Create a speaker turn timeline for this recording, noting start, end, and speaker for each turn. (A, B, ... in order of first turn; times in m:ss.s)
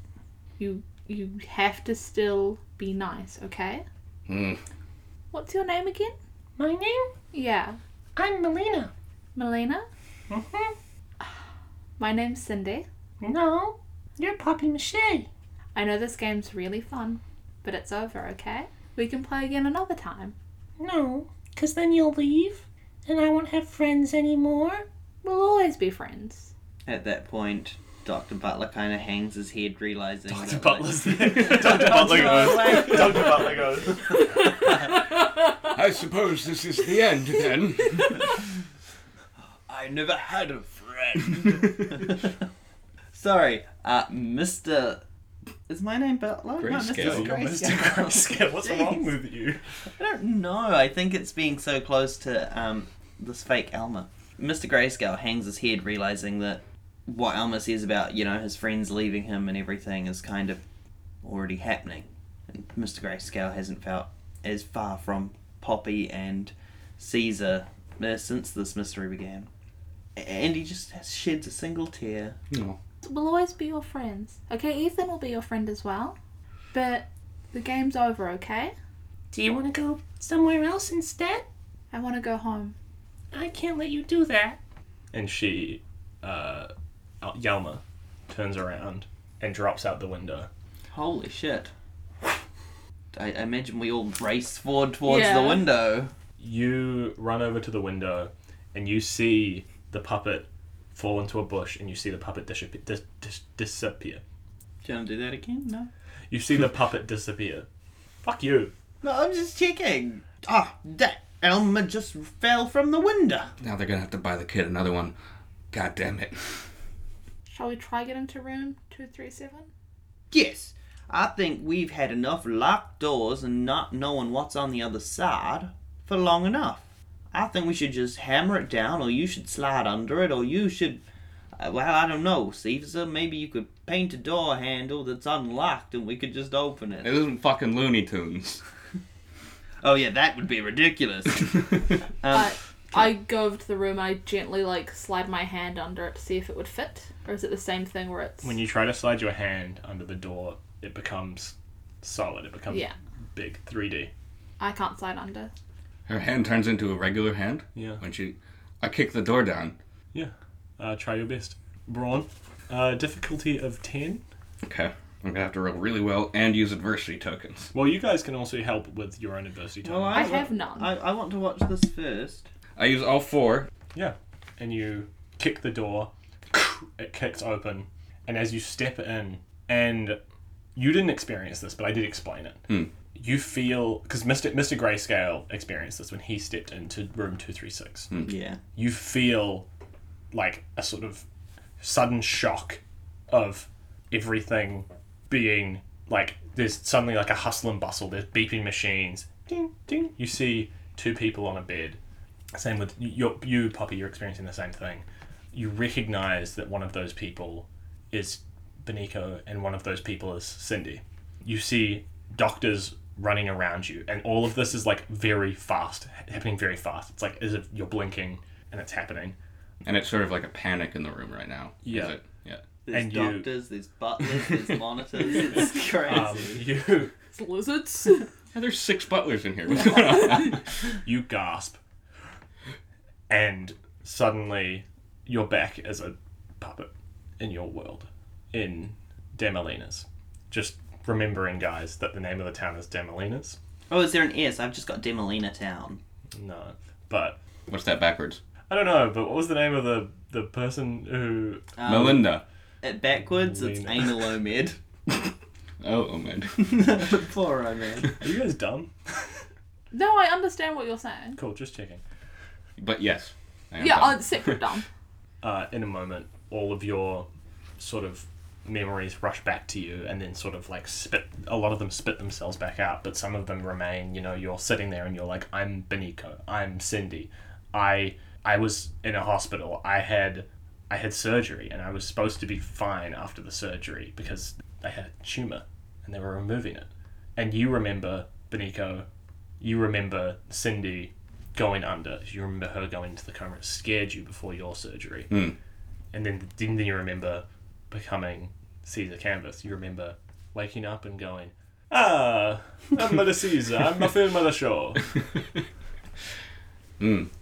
0:00.6-0:03.8 A
0:04.3-0:04.6 B
0:05.3-0:06.2 A
0:06.6-0:07.1 C
0:07.3-0:07.8 A
0:08.2-0:08.9 C
0:09.4-0:09.9 A
0:10.3-0:10.8 C
0:12.0-0:12.9 A
0:13.2-0:15.3 C
0:15.8-0:20.3 A
0:20.8-0:24.8 C
0:25.2-0:26.5 A
0:26.9-0:34.2 D
0:30.3-0:34.2 E
0:35.6-0:38.3 B
0:39.7-0:42.3 D
0:43.1-0:45.0 D
0:45.7-0:49.1 D
0:46.6-0:47.3 B
0:47.0-0:49.6 E
0:50.0-1:00.6 D
1:01.2-1:09.5 D
1:10.2-1:12.4 D
1:12.5-1:12.8 B
1:13.0-1:16.2 A
1:16.7-1:18.7 A
1:19.3-1:21.4 C
1:21.9-1:22.8 A
1:23.3-1:24.6 C
1:25.1-1:26.7 E
1:27.2-1:30.5 E
1:30.9-1:31.7 D
1:33.1-1:36.1 D
1:35.1-1:35.6 A
1:36.4-1:44.2 E
1:44.8-1:45.9 D
1:46.3-1:47.7 E
1:48.2-1:48.7 E
1:49.0-1:53.5 D
1:53.6-1:55.2 B
1:55.7-1:56.7 B
1:57.5-1:59.7 A
2:00.3-2:11.0 D
2:11.6-2:17.1 D
2:17.0-2:18.6 B
2:19.8-2:23.1 D
2:22.3-2:28.6 A
2:28.4-2:34.1 E
2:34.6-2:35.5 A
2:36.1-2:39.8 B
2:37.8-2:38.0 E
2:40.1-2:44.2 E
2:44.6-2:47.7 B
2:47.7-2:50.3 E
2:49.8-2:52.5 D
2:50.1-2:50.9 A
2:52.8-2:53.7 B
2:53.9-3:00.2 E
3:00.8-3:02.6 E
3:03.2-3:08.1 E
3:08.3-3:08.6 D
3:08.8-3:09.7 E
3:10.3-3:11.2 E
3:11.8-3:22.0 E
3:22.5-3:39.4 E
3:39.8-3:42.6 B
3:41.8-3:42.2 E
3:42.9-3:46.6 D
3:42.9-3:43.5 E
3:45.3-3:47.1 E
3:47.3-3:48.3 A
3:48.5-3:50.6 B
3:51.0-3:51.8 E
3:53.3-4:03.6 E
4:03.9-4:06.0 D
4:06.4-4:07.4 E
4:07.7-4:08.4 B
4:08.7-4:11.7 E
4:11.8-4:14.8 D
4:11.9-4:12.4 B
4:13.2-4:14.0 E
4:15.8-4:17.0 B
4:16.6-4:18.2 D
4:18.2-4:19.4 E
4:19.9-4:21.4 A
4:21.4-4:22.0 E
4:22.8-4:24.6 B
4:23.8-4:24.9 A
4:25.4-4:27.3 E
4:27.8-4:49.1 E
4:49.6-4:55.3 E
4:55.3-4:55.6 B
4:56.1-5:05.0 E
5:07.0-5:07.3 B